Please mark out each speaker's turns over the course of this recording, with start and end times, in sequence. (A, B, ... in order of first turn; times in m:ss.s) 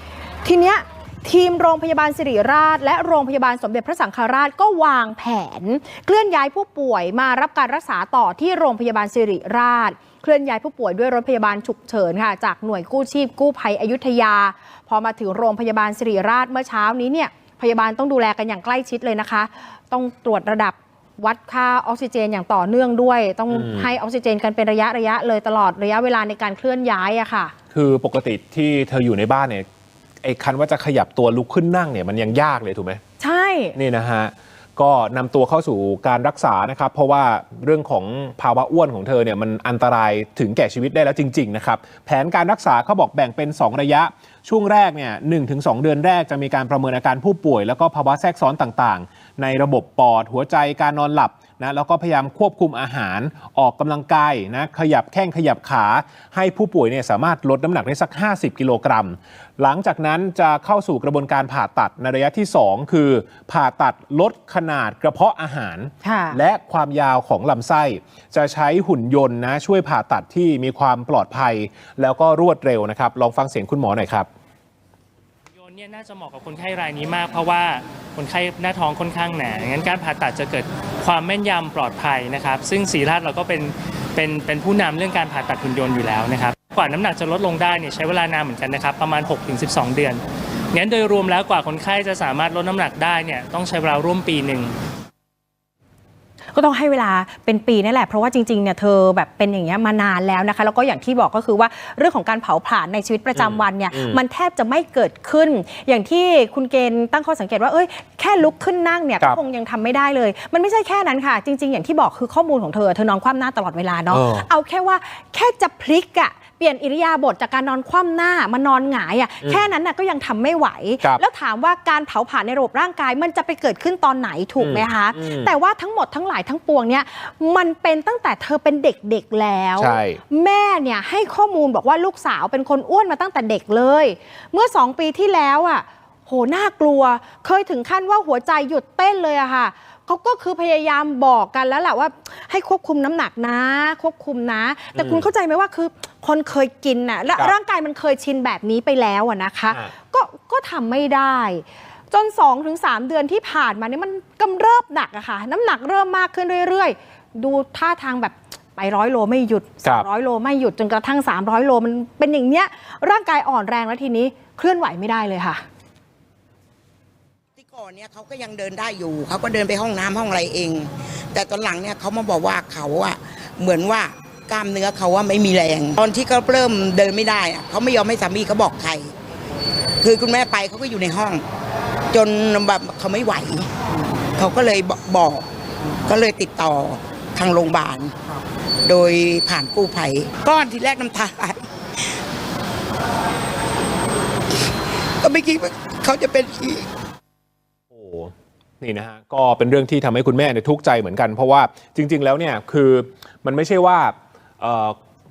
0:00.4-0:27.5 A
0:23.5-0:23.9 B
0:27.7-0:29.7 B
0:30.2-0:33.0 B
0:33.2-0:33.8 A
0:33.8-1:14.3 B
1:06.0-1:06.4 A
1:15.6-1:34.8 C
1:36.5-2:45.6 A
1:43.4-1:44.2 B
1:54.1-1:54.5 B
1:59.4-1:59.7 B
2:04.6-2:05.5 B
2:09.8-2:10.2 B
2:25.0-2:25.3 B
2:47.6-2:59.1 D
3:00.0-3:01.4 D
3:02.1-3:03.7 D
3:04.4-3:05.4 D
3:06.0-3:08.2 D
3:08.8-3:11.6 D
3:15.2-3:16.9 D
3:17.9-3:25.0 B